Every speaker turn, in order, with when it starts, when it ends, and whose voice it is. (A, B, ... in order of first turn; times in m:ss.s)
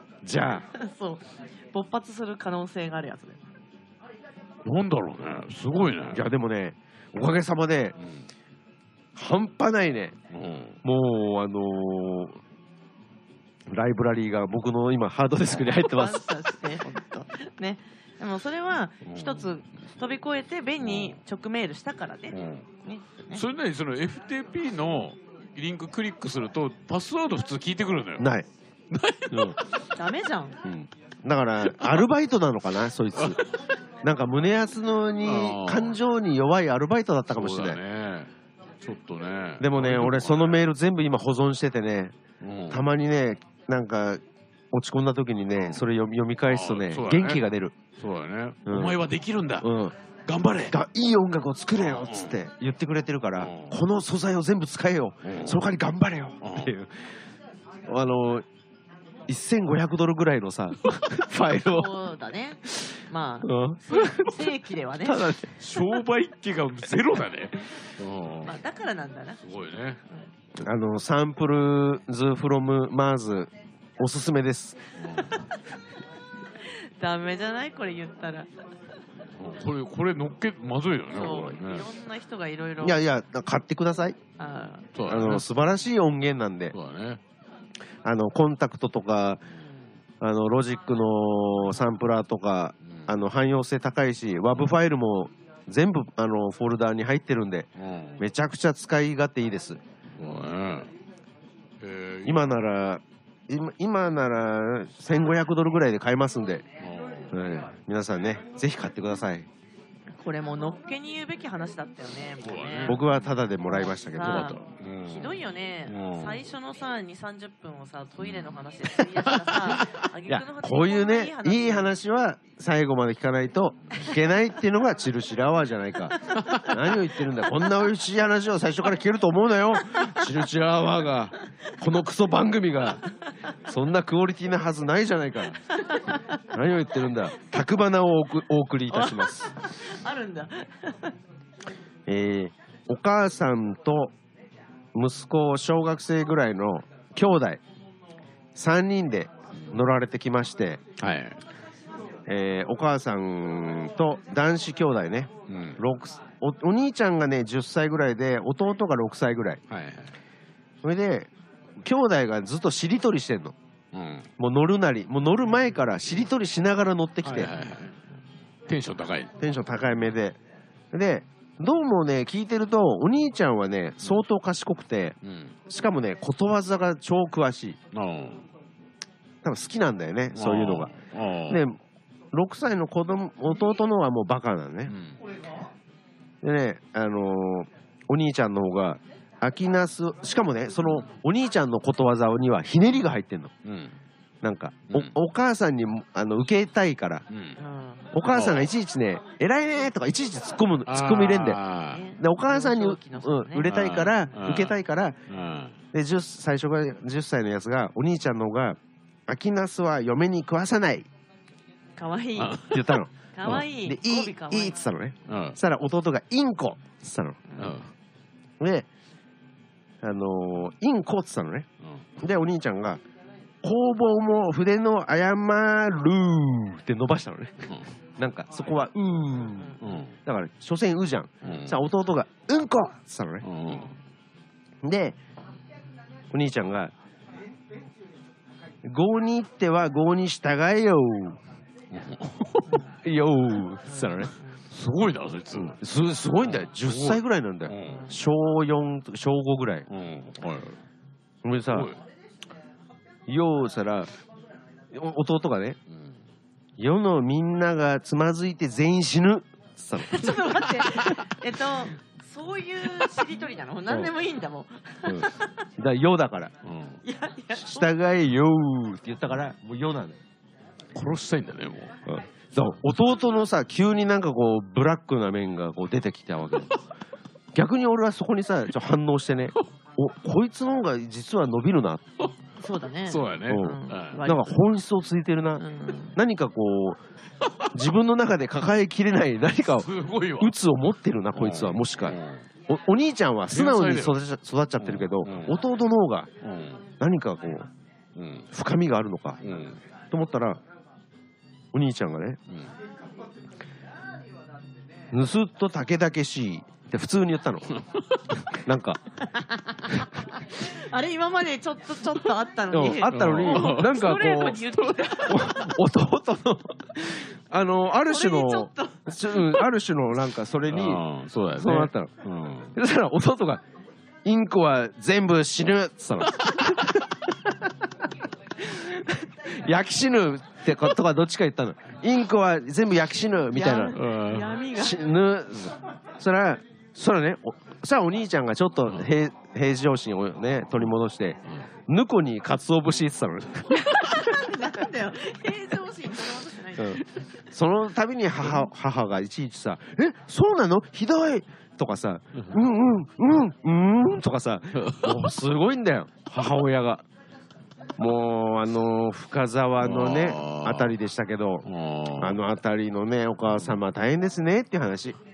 0:00.2-0:00.6 A
0:00.7-0:03.4 B
0:04.6-0:06.2 C
0:06.1-0:08.0 A
0:09.2-0:10.2 A
0:10.3-0:10.8 C
0:10.8-0:12.4 A
0:13.7-0:16.4 A
0:15.7-0:23.4 B
0:19.0-0:19.5 C
0:20.8-0:21.2 C
0:22.3-0:22.7 C
0:23.3-0:28.3 C
0:28.2-0:28.5 A
0:28.9-0:29.6 C
0:29.3-0:29.6 A
0:30.0-0:30.6 B
0:30.6-0:33.4 A
0:34.0-0:37.8 A
0:35.2-0:36.0 C
0:37.3-0:38.3 C
0:38.8-0:40.7 C
0:39.6-0:42.2 A
0:42.4-0:42.8 C
0:42.7-0:47.8 A
0:46.5-0:47.4 C
0:48.0-0:49.7 C
0:48.7-0:49.0 A
0:49.6-0:50.0 A
0:50.3-0:50.7 C
0:50.7-0:57.0 A
0:51.8-0:52.4 C
0:53.4-0:53.8 C
0:55.2-0:55.6 C
0:56.4-0:56.7 C
0:57.9-0:58.4 A
0:59.3-1:01.9 A
1:01.4-1:05.3 B
1:03.4-1:04.4 A
1:05.0-1:05.5 A
1:05.6-1:08.6 C
1:08.4-1:09.4 B
1:09.4-1:10.0 C
1:10.6-1:14.8 A
1:15.0-1:15.4 C
1:16.6-1:18.5 B
1:19.4-1:21.9 C
1:21.1-1:23.0 B
1:22.8-1:24.2 A
1:24.4-1:24.9 B
1:24.9-1:25.5 C
1:25.1-1:26.8 A
1:26.7-1:27.2 C
1:28.0-1:29.4 A
1:30.2-1:40.3 A
1:32.8-1:33.2 C
1:37.8-1:38.2 C
1:40.1-1:40.9 C
1:41.8-1:42.5 C
1:42.2-1:46.7 A
1:46.8-1:47.4 C
1:47.3-1:49.5 A
1:50.2-2:01.9 B
1:52.4-1:53.0 C
1:52.9-1:54.5 A
1:54.2-1:56.5 C
1:58.2-1:58.6 C
1:59.3-2:00.0 C
2:00.3-2:13.0 A
2:06.3-2:06.8 B
2:06.4-2:06.7 C
2:09.9-2:10.2 B
2:13.7-2:15.6 A
2:15.7-2:16.4 B
2:16.5-2:19.5 A
2:18.9-2:21.2 B
2:22.1-2:24.1 A
2:24.9-2:27.6 A
2:28.6-2:30.8 A
2:31.0-2:31.4 C
2:32.3-2:39.6 A
2:35.5-2:35.8 C
2:39.7-2:40.2 C
2:40.8-2:41.3 A
2:41.8-2:43.6 A
2:43.9-2:44.3 C
2:44.4-2:47.5 A
2:47.2-2:47.9 C
2:48.7-2:49.3 C
2:49.4-2:50.4 A
2:50.9-2:57.8 A
2:55.2-2:55.5 C
2:57.9-2:58.4 C
2:59.4-3:00.9 A
3:00.4-3:01.6 C
3:01.5-3:01.8 A
3:02.3-3:04.9 A
3:04.9-3:05.2 C
3:06.4-3:13.5 A
3:13.6-3:14.0 C
3:14.4-3:17.2 A
3:17.3-3:17.6 C
3:17.6-3:18.1 B
3:18.1-3:21.6 A
3:18.2-3:18.7 C
3:20.9-3:22.0 C
3:21.9-3:24.3 B
3:22.2-3:25.2 A
3:23.6-3:25.8 C
3:25.9-3:31.1 A
3:32.0-3:32.7 B
3:32.4-3:33.5 C
3:32.6-3:37.4 A
3:33.3-3:34.8 B
3:35.3-3:35.6 C
3:37.5-3:37.8 B
3:37.6-3:37.9 C
3:38.6-3:38.9 A
3:40.0-3:41.7 A
3:41.8-3:42.2 C
3:42.2-3:43.0 A
3:43.6-3:53.5 A
3:49.8-3:50.1 C
3:51.4-3:51.8 C
3:53.4-3:53.9 C
3:54.8-3:55.2 A
3:56.3-3:56.9 A
3:58.8-4:01.4 A
4:01.9-4:02.7 C
4:02.7-4:03.0 B
4:03.0-4:04.3 A
4:03.9-4:04.6 B
4:04.2-4:05.8 C
4:05.6-4:09.9 A
4:06.4-4:08.1 C
4:07.8-4:08.2 B
4:09.9-4:10.8 C
4:11.4-4:11.9 A
4:11.7-4:12.0 C
4:13.3-4:14.1 A
4:14.9-4:15.8 A
4:16.8-4:21.2 A
4:20.0-4:25.6 B
4:25.8-4:26.5 A
4:26.6-4:27.0 C
4:27.0-4:27.9 B
4:27.6-4:30.2 A
4:31.0-4:31.9 C
4:32.1-4:36.7 A
4:37.5-4:42.0 A
4:42.6-4:44.6 B
4:43.1-4:44.2 C
4:43.5-4:47.0 A
4:45.6-4:46.2 B
4:47.7-4:56.3 A
4:49.7-4:50.6 C
4:51.4-4:52.5 C
4:53.5-4:54.2 C
4:54.8-4:55.6 C
4:56.4-4:56.8 C
4:57.0-4:57.7 A
4:58.2-4:58.5 C
4:58.5-4:59.4 A
4:59.4-4:59.8 C
5:00.1-5:00.6 A
5:01.7-5:02.4 A
5:05.1-5:07.8 A
5:08.5-5:09.0 A
5:09.2-5:15.7 B
5:12.7-5:21.0 A
5:13.1-5:15.2 C
5:18.0-5:19.6 B
5:20.7-5:22.8 C
5:21.6-5:22.1 A
5:22.8-5:23.6 A
5:24.2-5:27.7 A
5:26.3-5:26.8 C
5:28.6-5:34.0 A
5:33.5-5:35.0 B
5:33.9-5:34.6 C
5:34.7-5:44.2 A
5:43.7-5:47.0 B
5:46.8-5:57.0 A
5:54.8-5:55.3 C
5:58.0-6:05.2 A
5:59.8-6:01.0 C
6:01.7-6:02.4 C
6:03.5-6:03.8 C